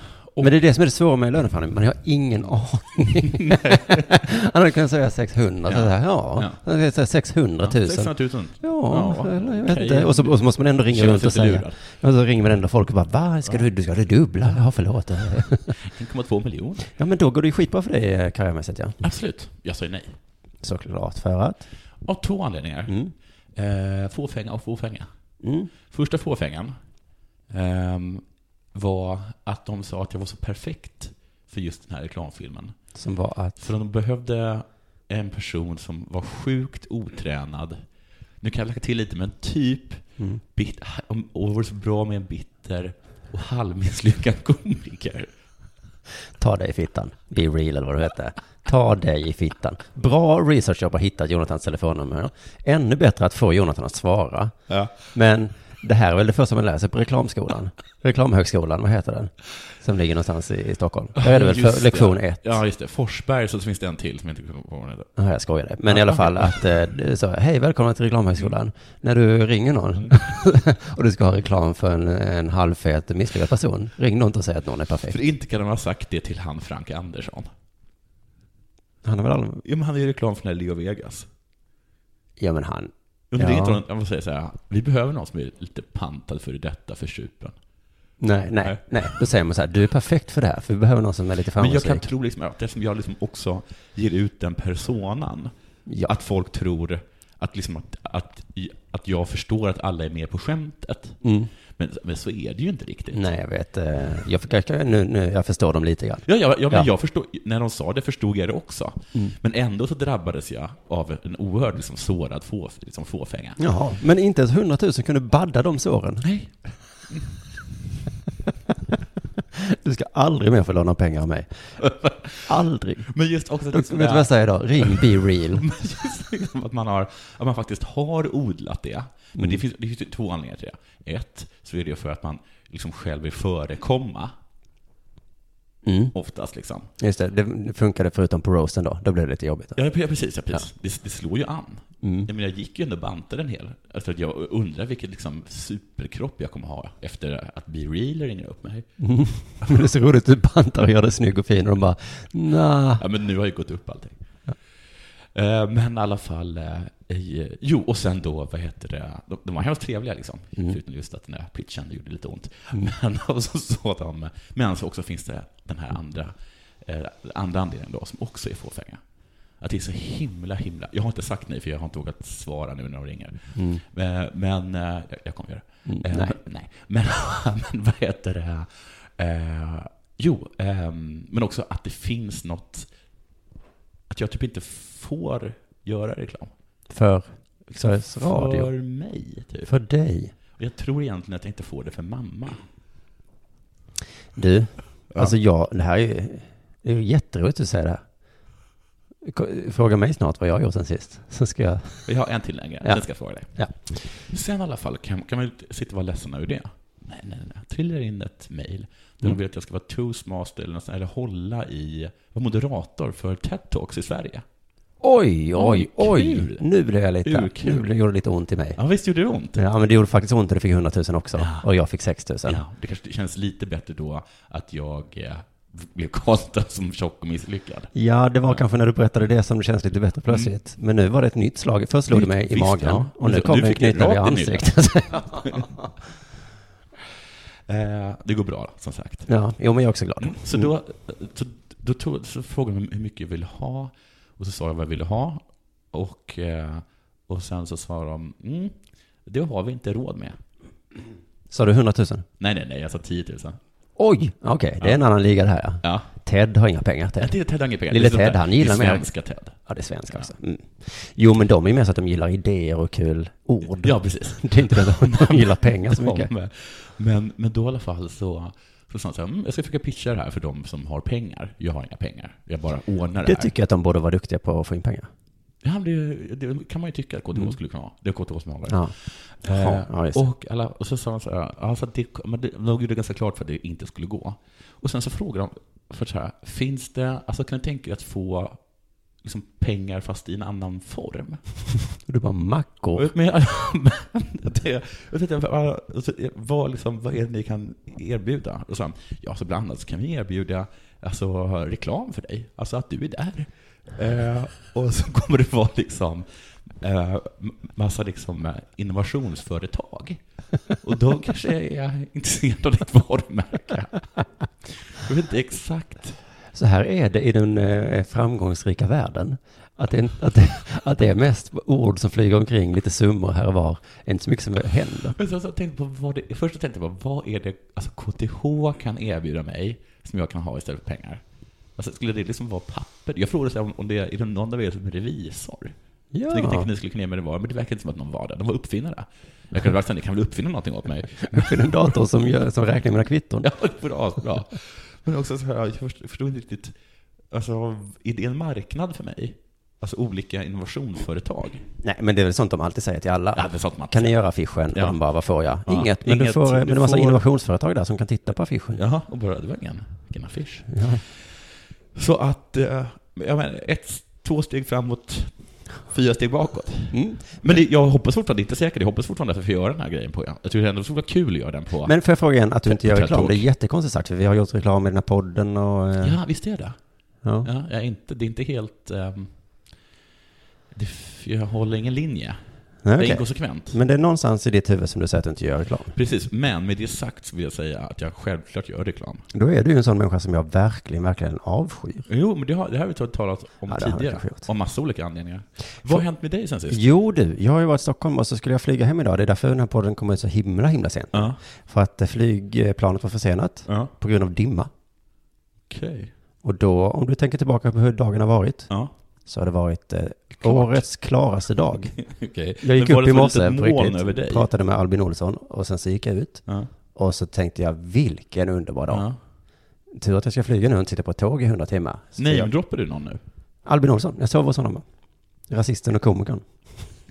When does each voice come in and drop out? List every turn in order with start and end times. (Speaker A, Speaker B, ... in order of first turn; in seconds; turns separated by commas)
Speaker A: 0.4-15.7, Speaker B: 3.4-4.0, Speaker B: 5.7-6.6, Speaker B: 7.6-10.4, Speaker B: 10.9-11.8, Speaker B: 15.8-16.9, Speaker A: 16.9-19.0, Speaker B: 19.0-20.1, Speaker A: 20.6-21.6, Speaker B: 22.0-22.9, Speaker A: 22.9-23.1, Speaker B: 23.6-25.1, Speaker A: 25.4-25.7, Speaker B: 25.9-26.8, Speaker B: 27.5-28.2, Speaker B: 28.7-32.8, Speaker A: 32.9-33.6, Speaker B: 33.6-37.8, Speaker B: 38.4-40.0, Speaker B: 40.5-45.3, Speaker A: 46.4-54.5, Speaker B: 54.7-54.9, Speaker A: 55.1-62.6, Speaker B: 61.2-65.1, Speaker A: 65.2-75.2, Speaker B: 65.9-66.4, Speaker B: 75.1-77.5, Speaker A: 79.0-79.6, Speaker B: 79.6-81.3, Speaker A: 82.4-83.8, Speaker B: 83.3-87.5, Speaker A: 88.2-92.1, Speaker B: 88.6-89.0, Speaker B: 91.6-101.2, Speaker A: 101.2-101.5, Speaker B: 101.8-103.2, Speaker A: 103.1-106.9, Speaker B: 106.3-113.6, Speaker A: 113.6-116.3, Speaker B: 116.2-116.5, Speaker A: 119.5-121.5, Speaker B: 121.8-122.4, Speaker A: 122.4-123.1, Speaker B: 123.1-134.3, Speaker A: 123.7-125.6, Speaker A: 135.8-136.1, Speaker B: 136.1-136.9, Speaker A: 137.0-139.8, Speaker B: 139.8-148.8, Speaker A: 142.0-142.3, Speaker A: 149.0-153.0, Speaker B: 153.0-154.2, Speaker B: 155.3-166.3, Speaker B: 166.8-169.0, Speaker B: 169.6-182.9, Speaker A: 173.5-173.8, Speaker A: 175.9-176.3, Speaker B: 184.1-186.5, Speaker A: 186.9-188.7, Speaker B: 187.9-189.7, Speaker A: 189.7-190.3, Speaker B: 190.6-192.6, Speaker A: 194.3-198.0, Speaker A: 199.2-202.1, Speaker B: 202.1-214.4, Speaker A: 215.0-218.8, Speaker B: 215.5-216.6, Speaker B: 217.2-217.9, Speaker B: 218.8-219.6, Speaker A: 219.6-222.6, Speaker B: 221.4-221.6, Speaker B: 222.4-227.9, Speaker A: 227.9-235.6, Speaker B: 232.1-234.7, Speaker B: 235.2-235.7, Speaker B: 237.7-239.3, Speaker A: 239.3-240.7, Speaker B: 240.2-245.4, Speaker B: 245.9-248.7, Speaker B: 249.2-250.4, Speaker A: 251.5-252.2, Speaker B: 252.4-253.6, Speaker A: 254.0-257.3, Speaker B: 255.8-256.1, Speaker B: 257.2-259.6, Speaker A: 257.9-259.1, Speaker A: 259.6-266.3, Speaker B: 263.8-273.5, Speaker A: 273.2-275.1, Speaker B: 275.6-288.6, Speaker A: 279.4-280.2, Speaker B: 289.2-291.4, Speaker A: 292.1-293.1, Speaker B: 292.9-306.2, Speaker B: 306.8-310.2, Speaker B: 310.8-314.1, Speaker B: 314.6-316.2, Speaker A: 316.5-325.1, Speaker B: 325.1-331.2, Speaker B: 331.8-335.7, Speaker A: 336.1-336.7, Speaker B: 336.3-342.0, Speaker A: 341.3-343.5, Speaker B: 343.4-346.7, Speaker B: 347.3-351.6, Speaker A: 351.8-358.8, Speaker B: 353.3-354.1, Speaker B: 354.7-355.0, Speaker B: 355.6-357.2, Speaker B: 358.7-360.7, Speaker A: 360.7-361.0, Speaker B: 361.9-371.9, Speaker A: 366.9-367.5, Speaker A: 371.8-376.2, Speaker B: 372.6-373.4, Speaker B: 376.0-376.8, Speaker B: 377.4-379.3, Speaker B: 380.7-382.4, Speaker A: 382.8-385.9, Speaker B: 383.0-383.8, Speaker B: 385.9-389.2, Speaker A: 389.3-392.0, Speaker B: 392.1-396.8, Speaker A: 393.7-394.4, Speaker A: 396.7-404.7, Speaker B: 401.1-401.4, Speaker B: 405.7-406.1, Speaker A: 406.4-408.7, Speaker A: 409.3-411.9, Speaker B: 410.4-410.8, Speaker B: 412.1-414.5, Speaker A: 412.6-416.4, Speaker A: 416.9-419.1, Speaker B: 418.9-419.2, Speaker A: 419.9-422.5, Speaker B: 422.2-423.2, Speaker A: 423.6-424.8, Speaker A: 425.5-426.7